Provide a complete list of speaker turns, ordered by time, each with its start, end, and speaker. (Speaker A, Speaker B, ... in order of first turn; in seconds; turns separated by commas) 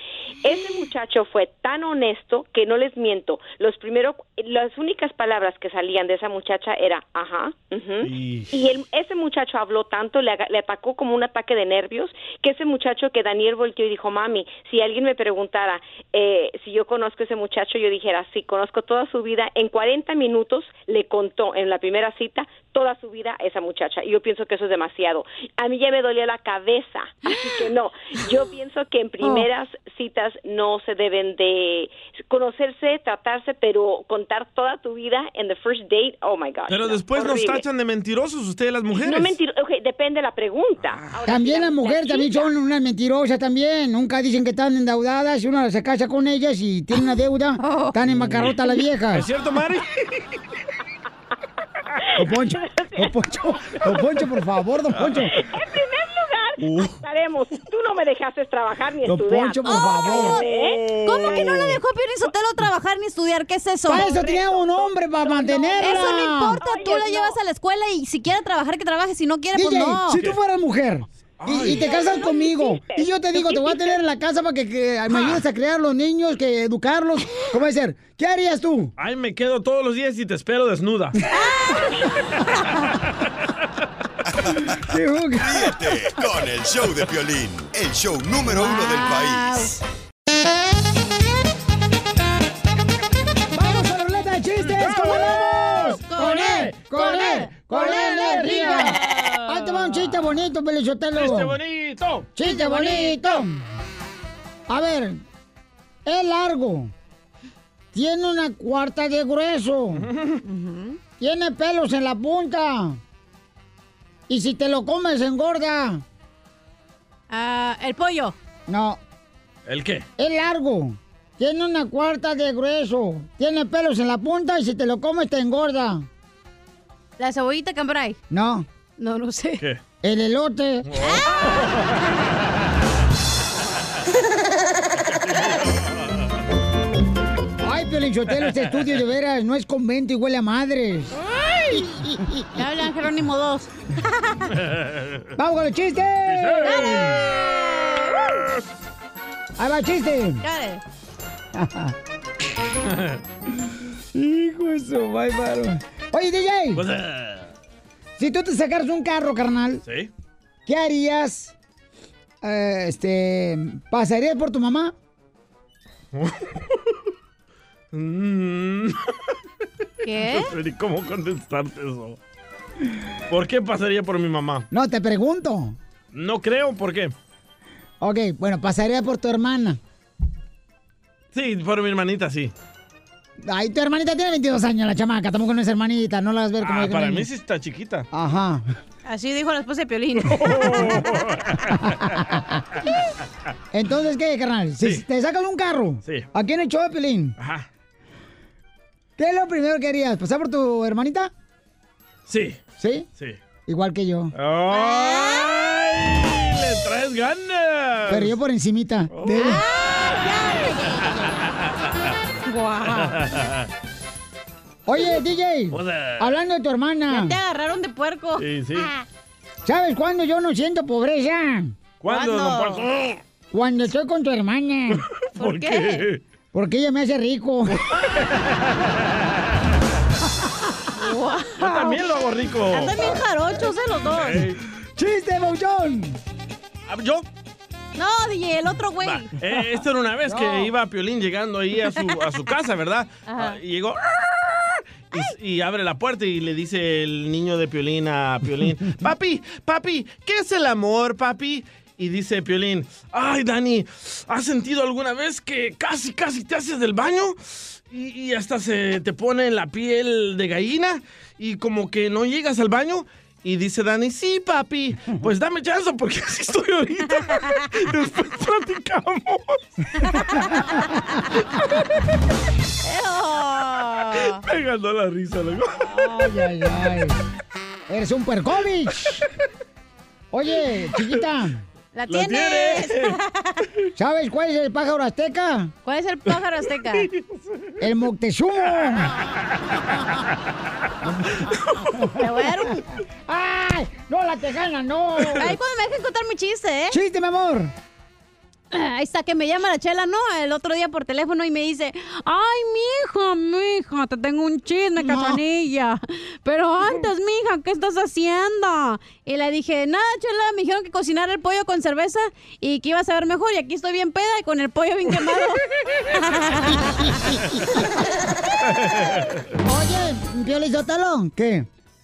Speaker A: 0.4-37.6, Speaker B: 8.0-8.5, Speaker C: 29.2-29.5, Speaker B: 36.7-39.4, Speaker A: 39.0-42.5, Speaker B: 40.8-41.1, Speaker D: 41.2-49.3, Speaker C: 47.6-48.0, Speaker B: 49.1-49.9, Speaker D: 52.2-55.3, Speaker A: 52.6-53.1, Speaker B: 55.0-55.2, Speaker A: 55.4-61.5, Speaker B: 56.6-57.0, Speaker D: 59.0-60.4, Speaker C: 59.6-64.1, Speaker B: 60.5-61.8, Speaker D: 63.9-66.6, Speaker A: 63.9-67.4, Speaker C: 65.7-70.2, Speaker D: 69.5-78.9, Speaker B: 71.4-71.8, Speaker A: 71.9-73.1, Speaker B: 79.0-81.2, Speaker C: 81.4-81.8, Speaker D: 84.9-85.7, Speaker E: 85.4-89.7, Speaker C: 88.5-89.7, Speaker D: 93.5-101.6, Speaker C: 94.9-99.7, Speaker B: 98.2-98.7, Speaker B: 101.2-102.3, Speaker D: 102.4-103.5, Speaker C: 102.4-103.4, Speaker D: 104.7-105.2, Speaker D: 106.1-106.9, Speaker D: 107.9-110.1, Speaker B: 110.0-110.4, Speaker C: 110.5-111.0, Speaker D: 111.2-113.0, Speaker D: 114.3-116.0, Speaker C: 117.3-118.3, Speaker D: 118.7-119.0, Speaker B: 119.7-120.1, Speaker D: 120.2-126.1, Speaker C: 127.2-128.2, Speaker D: 128.3-128.7, Speaker C: 129.0-129.6, Speaker D: 130.0-130.9, Speaker B: 130.9-131.6, Speaker B: 135.1-135.9, Speaker D: 137.6-141.1, Speaker C: 141.5-141.8, Speaker D: 142.0-142.4, Speaker C: 142.6-144.5, Speaker D: 145.4-147.2, Speaker B: 146.3-146.8, Speaker C: 146.6-148.3, Speaker D: 149.6-150.4, Speaker C: 150.4-150.8, Speaker D: 151.6-151.9, Speaker D: 154.1-156.8, Speaker B: 156.8-157.5, Speaker D: 158.2-159.8, Speaker B: 159.8-160.1, Speaker D: 160.7-161.5, Speaker D: 162.4-164.9, Speaker B: 167.9-169.0, Speaker C: 170.0-170.5, Speaker B: 170.1-172.2, Speaker B: 173.3-174.7, Speaker D: 174.7-175.8, Speaker B: 176.1-177.1, Speaker D: 178.0-179.8, Speaker B: 181.3-182.5, Speaker D: 183.4-187.3, Speaker B: 186.6-188.1, Speaker D: 188.1-188.6, Speaker C: 189.1-190.8, Speaker B: 190.2-191.7, Speaker D: 193.7-197.3, Speaker B: 197.4-197.7, Speaker D: 199.2-201.3, Speaker B: 202.3-202.6, Speaker D: 202.8-203.1, Speaker D: 203.7-204.3, Speaker B: 204.3-208.3, Speaker C: 204.7-205.5, Speaker D: 208.1-209.6, Speaker B: 209.1-209.6, Speaker C: 209.2-211.4, Speaker C: 212.5-213.2, Speaker B: 212.9-213.6, Speaker D: 214.9-217.4, Speaker B: 215.7-216.3, Speaker C: 217.1-218.4, Speaker B: 218.4-218.9, Speaker D: 219.7-221.7, Speaker B: 222.0-223.2, Speaker C: 222.1-222.9, Speaker D: 223.5-225.0, Speaker B: 225.4-226.2, Speaker C: 225.4-226.0, Speaker D: 226.5-227.8, Speaker B: 227.7-228.7, Speaker C: 231.0-232.1, Speaker B: 231.6-233.2, Speaker C: 232.7-234.5, Speaker B: 234.1-234.6, Speaker D: 235.0-236.2, Speaker B: 236.9-237.2, Speaker C: 238.0-239.3, Speaker B: 239.0-244.0, Speaker D: 240.3-240.7, Speaker C: 243.3-243.6, Speaker B: 245.1-269.6, Speaker C: 272.8-274.4, Speaker B: 274.4-275.9, Speaker D: 275.9-277.2, Speaker D: 277.9-279.2, Speaker D: 280.3-281.6, Speaker C: 281.9-283.5, Speaker B: 282.1-283.2, Speaker D: 284.0-285.7, Speaker C: 285.9-287.1, Speaker D: 287.8-289.1, Speaker C: 292.2-292.8, Speaker D: 293.3-295.5, Speaker C: 295.4-297.0, Speaker D: 296.9-297.7, Speaker C: 298.7-315.6, Speaker D: 305.0-305.4, Speaker C: 316.2-317.2, Speaker D: 319.6-321.7